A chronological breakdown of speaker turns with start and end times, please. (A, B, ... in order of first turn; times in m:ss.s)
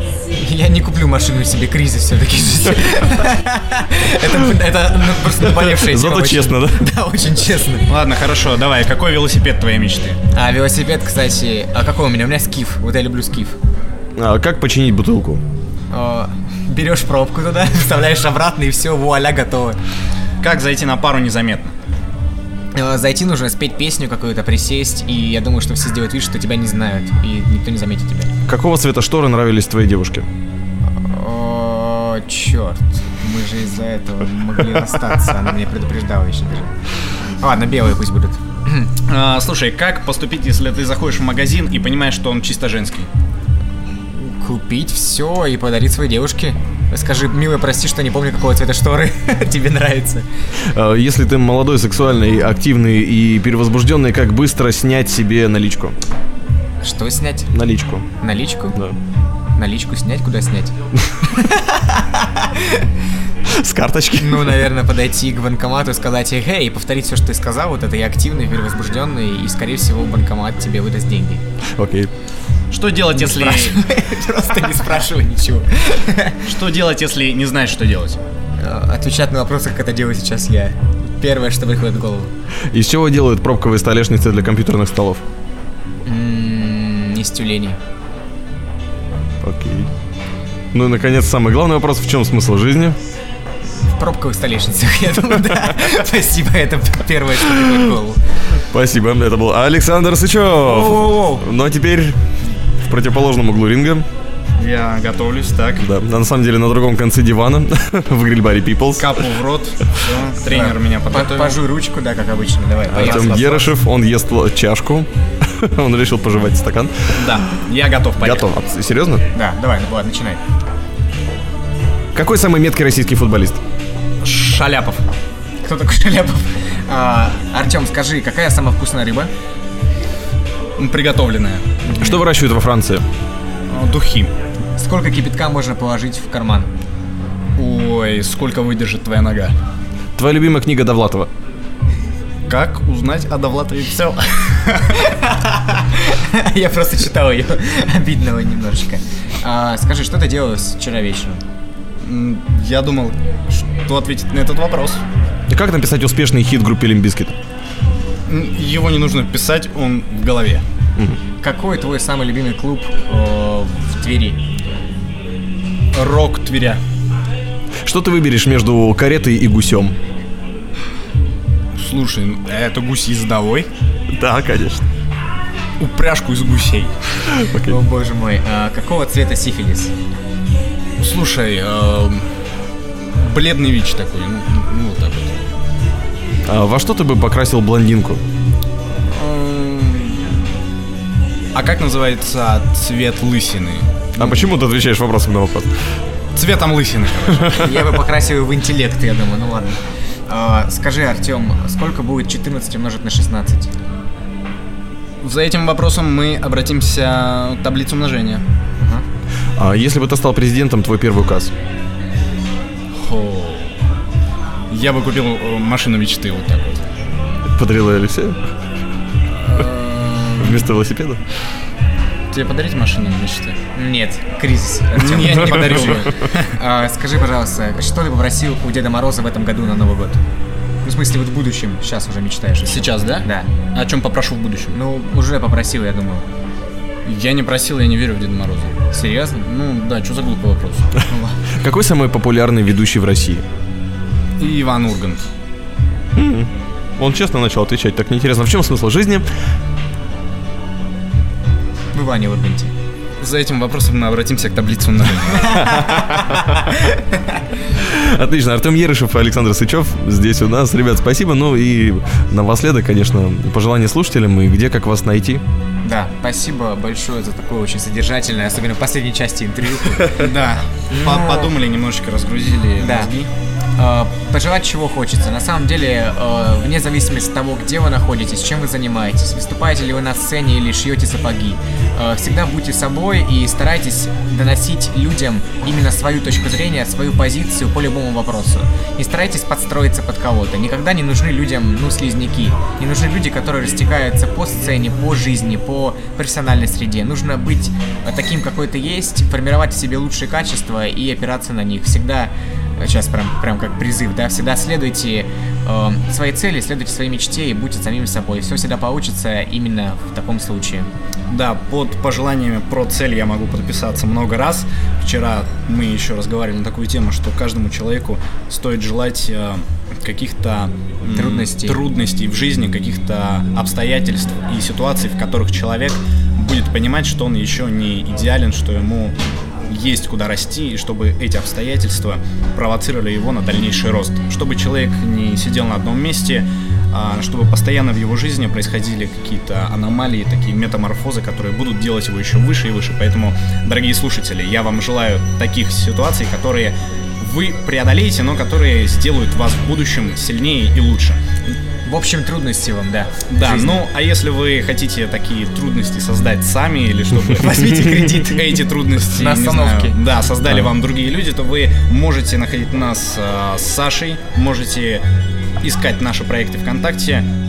0:00.4-0:07.9 A
0:05.3-0:06.9 B
0:07.9-0:10.2 C
0:10.3-0:13.6 A
0:14.2-0:15.4 B
0:15.9-0:19.8 A
0:20.4-0:21.7 C
0:22.8-0:28.3 A
0:28.5-0:30.3 B
0:31.0-0:36.7 A
0:37.4-0:38.9 A
0:39.1-0:43.1 C
0:44.1-0:50.2 A
0:50.6-0:56.0 B
0:56.8-0:57.5 A
0:57.5-0:58.1 B
0:58.2-0:58.8 A
0:59.6-1:00.7 A
1:01.3-1:02.8 A
1:03.5-1:04.7 B
1:04.2-1:11.4 A
1:11.8-1:12.1 B
1:12.7-1:13.8 C
1:13.1-1:16.4 A
1:16.4-1:18.2 C
1:18.6-1:22.3 A
1:22.7-1:25.2 B
1:26.0-1:27.8 A
1:29.4-1:29.9 B
1:30.7-1:33.0 B
1:34.0-1:38.2 A
1:38.6-1:42.2 B
1:40.7-1:41.5 C
1:42.8-1:44.1 B
1:44.6-1:45.9 C
1:45.8-1:49.2 B
1:49.0-1:51.6 C
1:50.5-1:53.7 A
1:52.9-1:57.4 B
1:52.9-1:53.3 C
1:57.2-1:58.5 C
1:58.2-1:59.2 B
1:59.4-2:00.4 A
2:02.1-2:03.6 B
2:04.2-2:05.0 C
2:05.6-2:09.3 A
2:10.8-2:11.7 C
2:11.8-2:12.2 A
2:11.9-2:13.0 B
2:13.7-2:14.3 C
2:14.8-2:16.7 A
2:17.6-2:19.5 C
2:20.2-2:21.3 B
2:22.5-2:25.0 C
2:25.0-2:31.4 A
2:32.0-2:35.0 C
2:35.5-2:37.4 B
2:38.3-2:40.6 C
2:41.4-2:44.4 A
2:45.9-2:46.8 C
2:47.8-2:50.0 B
2:51.8-2:53.7 C
2:54.1-2:54.8 B
2:55.8-2:57.0 C
2:57.3-2:57.8 B
2:57.7-2:59.9 A
3:01.0-3:02.3 C
3:03.0-3:05.4 C
3:06.5-3:08.2 B
3:09.1-3:10.4 C
3:11.6-3:14.5 C
3:14.2-3:15.7 B
3:16.4-3:17.9 C
3:17.5-3:23.7 A
3:25.2-3:28.4 C
3:29.6-3:31.5 B
3:33.0-3:33.7 C
3:34.7-3:36.8 C
3:37.5-3:38.5 B
3:39.3-3:40.6 C
3:40.4-3:41.2 B
3:42.3-3:43.6 C
3:43.8-3:50.2 A
3:45.0-3:46.5 C
3:45.5-3:45.9 B
3:50.8-3:53.5 A
3:52.7-3:54.8 C
3:54.7-3:56.2 A
3:57.1-3:58.7 C
3:58.9-3:59.5 A
3:59.4-4:01.0 C
4:01.1-4:01.4 A
4:01.6-4:03.4 B
4:04.4-4:05.3 C
4:06.2-4:09.3 B
4:11.9-4:12.7 A
4:13.2-4:15.8 C
4:15.5-4:17.4 A
4:17.8-4:25.4 B
4:25.8-4:30.2 A
4:30.2-4:33.3 C
4:30.9-4:31.5 A
4:32.8-4:33.1 A
4:33.8-5:10.9 A
5:11.3-5:29.2 C
5:21.1-5:21.8 A
5:29.7-5:51.2 C
5:51.9-5:53.8 A
5:53.3-6:05.0 C
5:57.4-6:00.0 A
6:05.6-6:07.3 C